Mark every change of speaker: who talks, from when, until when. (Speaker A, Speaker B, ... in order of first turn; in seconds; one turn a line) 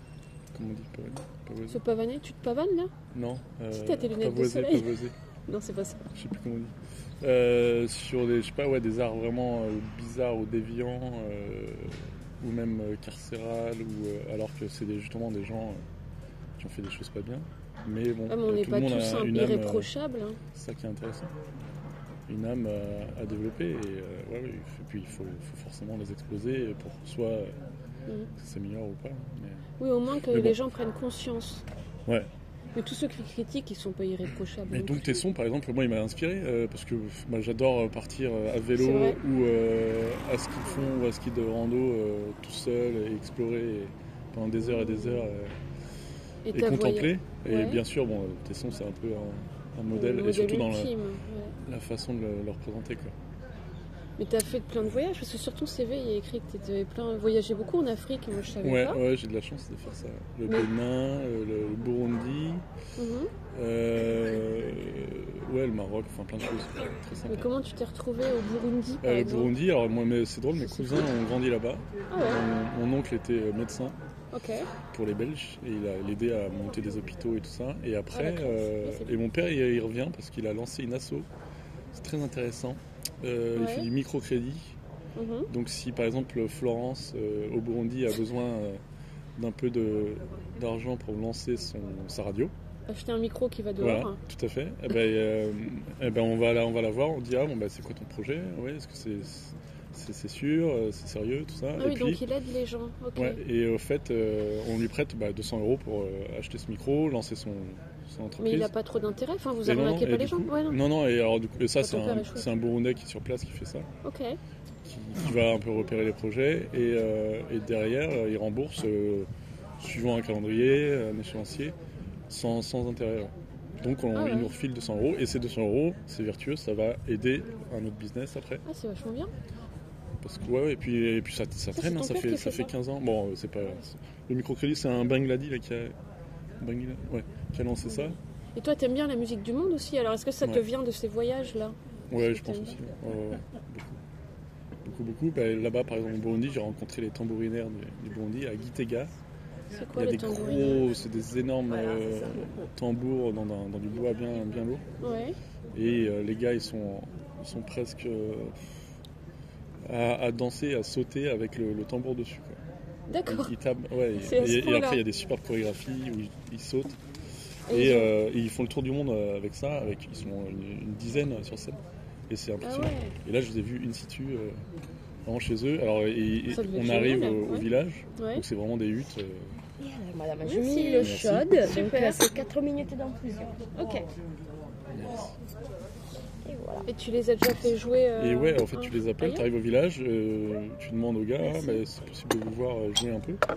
Speaker A: 0.5-1.8
Speaker B: 1.7-2.9
Speaker A: 3.1-5.1
Speaker B: 3.7-6.1
Speaker A: 6.1-15.8
Speaker A: 16.6-19.9
Speaker B: 18.3-20.4
Speaker A: 20.5-21.4
Speaker A: 22.3-27.6
Speaker A: 28.4-29.7
Speaker B: 29.8-31.6
Speaker A: 30.3-30.6
Speaker B: 32.8-35.2
Speaker A: 34.7-45.5
Speaker B: 38.7-39.2
Speaker B: 44.6-45.3
Speaker B: 46.5-47.8
Speaker A: 46.5-50.9
Speaker B: 49.9-51.5
Speaker A: 51.6-53.1
Speaker B: 54.2-59.0
Speaker A: 58.6-62.6
Speaker B: 63.0-63.3
Speaker A: 63.5-67.5
Speaker B: 67.3-69.5
Speaker A: 69.0-74.0
Speaker B: 70.8-71.1
Speaker B: 72.1-72.4
Speaker B: 74.3-74.7
Speaker A: 74.9-81.3
Speaker B: 78.1-79.2
Speaker A: 81.9-84.8
Speaker B: 83.5-83.9
Speaker B: 85.2-85.5
Speaker A: 85.5-88.8
Speaker A: 89.4-92.5
Speaker B: 92.9-94.2
Speaker A: 93.8-102.2
Speaker B: 101.8-103.4
Speaker A: 103.2-108.7
Speaker B: 108.4-110.8
Speaker A: 109.7-113.9
Speaker B: 111.8-112.5
Speaker B: 114.0-114.4
Speaker A: 114.8-119.3
Speaker A: 119.8-121.8
Speaker A: 122.3-128.6
Speaker B: 124.1-124.5
Speaker B: 128.7-129.3
Speaker A: 130.2-135.9
Speaker B: 131.7-132.8
Speaker A: 136.6-138.2
Speaker B: 137.9-142.8
Speaker A: 142.1-144.0
Speaker A: 144.8-149.1
Speaker B: 149.7-150.9
Speaker A: 149.9-154.8
Speaker B: 155.0-155.3
Speaker A: 155.7-158.6
Speaker A: 159.8-162.6
Speaker B: 163.1-163.5
Speaker A: 163.3-167.0
Speaker B: 164.2-165.0
Speaker B: 167.7-168.1
Speaker A: 167.7-174.6
Speaker B: 172.6-173.2
Speaker A: 175.3-179.6
Speaker B: 176.5-178.4
Speaker C: 179.8-183.6
Speaker B: 180.4-182.3
Speaker A: 181.0-181.7
Speaker B: 183.8-184.1
Speaker A: 184.9-185.3
Speaker C: 186.4-186.9
Speaker B: 186.9-189.5
Speaker A: 188.2-193.4
Speaker B: 191.4-191.8